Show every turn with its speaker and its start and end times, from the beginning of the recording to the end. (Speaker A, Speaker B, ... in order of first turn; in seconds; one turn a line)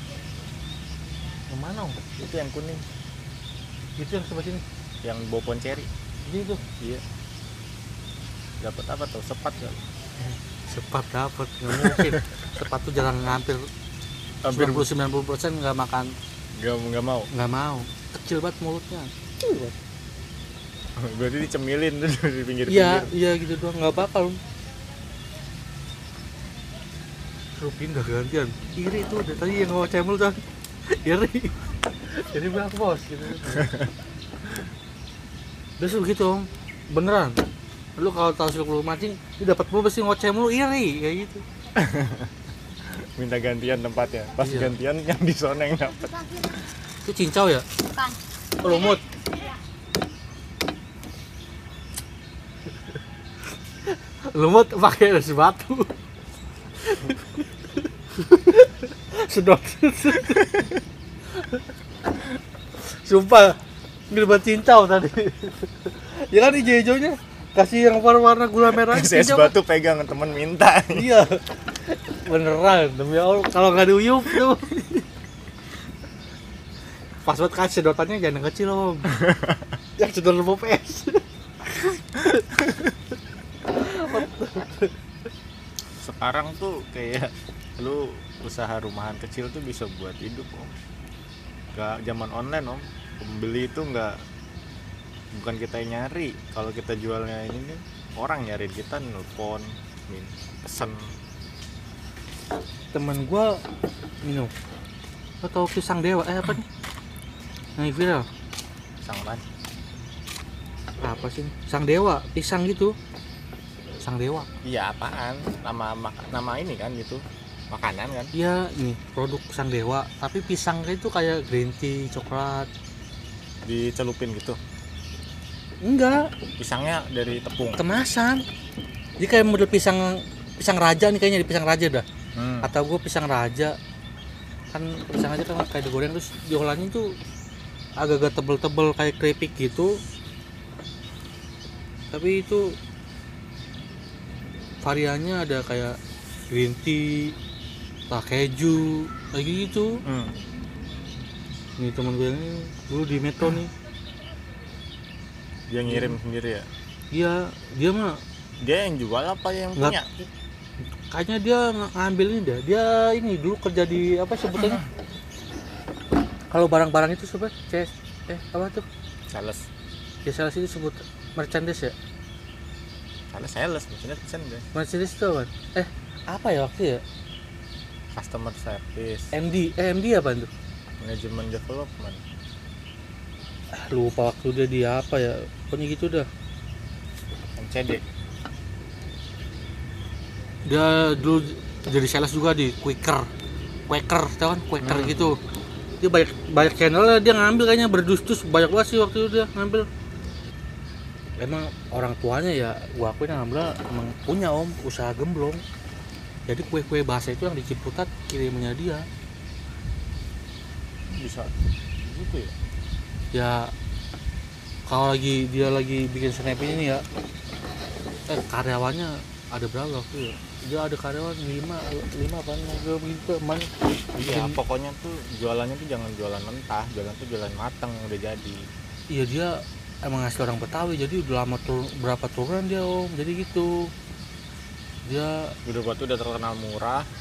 Speaker A: 1.5-2.0
Speaker B: 2.2-2.9
Speaker A: 4.0-4.6
Speaker B: 5.0-5.9
Speaker A: 6.2-6.6
Speaker B: 6.8-7.0
Speaker B: 8.6-9.8
Speaker A: 10.2-13.7
Speaker B: 11.7-12.2
Speaker B: 14.4-14.9
Speaker A: 14.5-16.1
Speaker B: 16.6-17.3
Speaker A: 17.3-19.7
Speaker B: 21.0-23.1
Speaker A: 22.7-24.4
Speaker A: 27.6-33.8
Speaker B: 33.5-33.9
Speaker A: 35.8-37.4
Speaker A: 38.0-41.4
Speaker B: 41.8-42.3
Speaker B: 42.9-46.3
Speaker A: 44.4-44.7
Speaker A: 47.0-47.7
Speaker A: 48.6-49.0
Speaker A: 53.9-55.9
Speaker A: 56.8-60.5
Speaker B: 60.2-60.8
Speaker A: 61.4-61.6
Speaker A: 62.8-63.6
Speaker A: 64.1-69.5
Speaker B: 68.7-71.1
Speaker A: 70.9-75.1
Speaker A: 77.2-79.2
Speaker B: 79.1-79.6
Speaker A: 80.0-82.9
Speaker A: 83.8-84.9
Speaker B: 86.0-90.7
Speaker B: 91.7-94.2
Speaker B: 95.3-101.2
Speaker A: 102.9-103.6
Speaker A: 104.2-104.5
Speaker A: 105.4-106.7
Speaker A: 107.8-108.3
Speaker B: 109.0-109.4
Speaker A: 111.0-113.0
Speaker A: 114.0-114.5
Speaker B: 114.6-118.3
Speaker A: 118.3-122.7
Speaker B: 123.7-124.6
Speaker A: 125.8-126.3
Speaker B: 126.6-127.8
Speaker A: 127.8-128.4
Speaker A: 129.2-132.1
Speaker B: 132.4-132.7
Speaker A: 132.6-133.8
Speaker A: 134.7-137.2
Speaker A: 138.0-140.0
Speaker A: 142.1-142.8
Speaker A: 144.8-146.0
Speaker A: 146.5-147.3
Speaker A: 148.1-150.0
Speaker B: 150.1-150.3
Speaker A: 151.8-153.7
Speaker B: 155.7-156.7
Speaker A: 155.9-156.2
Speaker A: 157.1-158.2
Speaker B: 158.6-160.1
Speaker A: 161.1-164.8
Speaker B: 164.6-164.9
Speaker A: 166.5-168.8
Speaker B: 169.3-169.7
Speaker A: 170.2-171.9
Speaker B: 173.3-174.7
Speaker A: 174.7-177.0
Speaker B: 178.1-179.3
Speaker A: 179.3-180.5
Speaker B: 181.0-182.2
Speaker A: 183.7-186.3
Speaker B: 187.6-188.0
Speaker A: 190.7-193.3
Speaker A: 193.9-195.4
Speaker B: 194.8-195.3
Speaker A: 196.0-199.9
Speaker A: 201.4-205.6
Speaker A: 206.5-209.1
Speaker B: 211.1-211.5
Speaker B: 212.0-212.5
Speaker A: 213.3-213.7
Speaker A: 214.9-217.1
Speaker A: 218.3-224.6
Speaker B: 224.2-228.7
Speaker A: 229.1-233.9
Speaker A: 235.1-235.6
Speaker B: 235.7-237.1